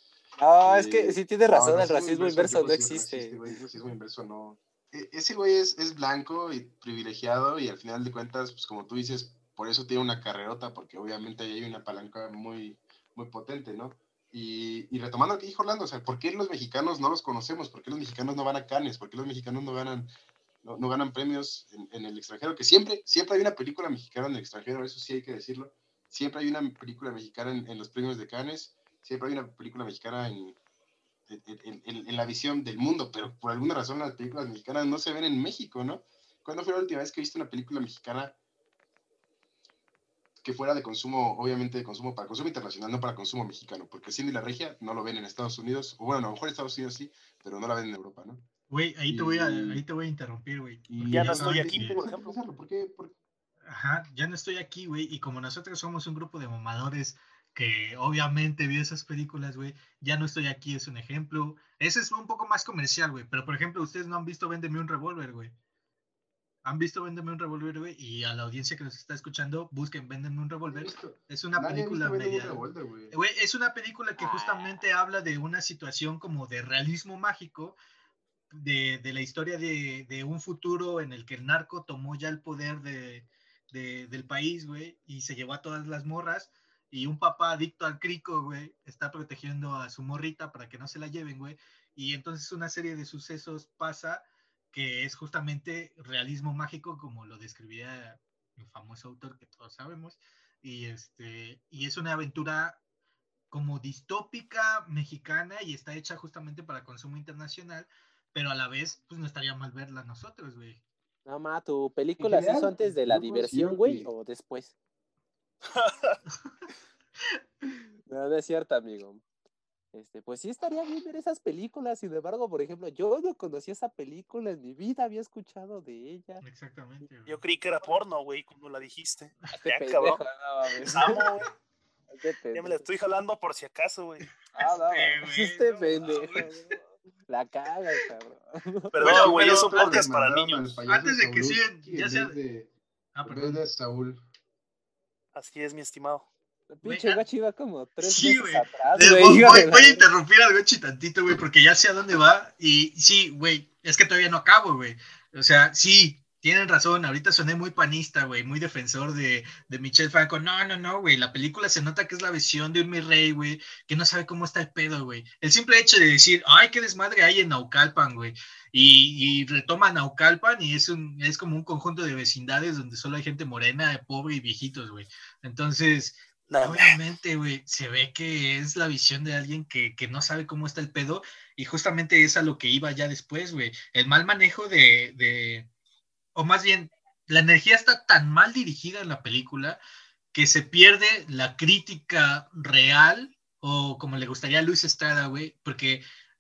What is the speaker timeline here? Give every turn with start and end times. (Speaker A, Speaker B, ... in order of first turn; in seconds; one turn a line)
Speaker A: 0.4-3.4
Speaker B: 0.6-20.1
Speaker B: 20.6-30.6
Speaker B: 31.3-38.4
Speaker B: 40.4-48.5
Speaker C: 48.7-52.0
Speaker B: 49.1-49.8
Speaker B: 50.9-53.2
Speaker D: 51.0-52.3
Speaker C: 53.7-65.5
Speaker C: 66.6-77.8
Speaker B: 70.7-73.2
Speaker A: 74.2-74.8
Speaker C: 78.5-102.8
Speaker C: 103.5-110.8
Speaker A: 111.3-114.8
Speaker B: 112.2-114.1
Speaker D: 115.7-116.2
Speaker A: 118.1-119.2
Speaker A: 119.9-126.4
Speaker C: 126.4-127.4
Speaker D: 127.3-130.2
Speaker A: 129.5-131.3
Speaker D: 130.8-131.5
Speaker A: 132.1-132.8
Speaker D: 132.5-134.3
Speaker A: 134.6-139.0
Speaker C: 134.6-136.8
Speaker D: 138.9-140.8
Speaker C: 139.0-140.0
Speaker B: 139.0-142.7
Speaker C: 140.9-142.4
Speaker C: 143.2-143.6
Speaker B: 143.2-144.2
Speaker D: 145.3-146.3
Speaker A: 146.7-150.1
Speaker C: 146.8-147.2
Speaker C: 148.0-185.7
Speaker D: 176.5-177.0
Speaker C: 186.3-189.8
Speaker C: 190.3-196.0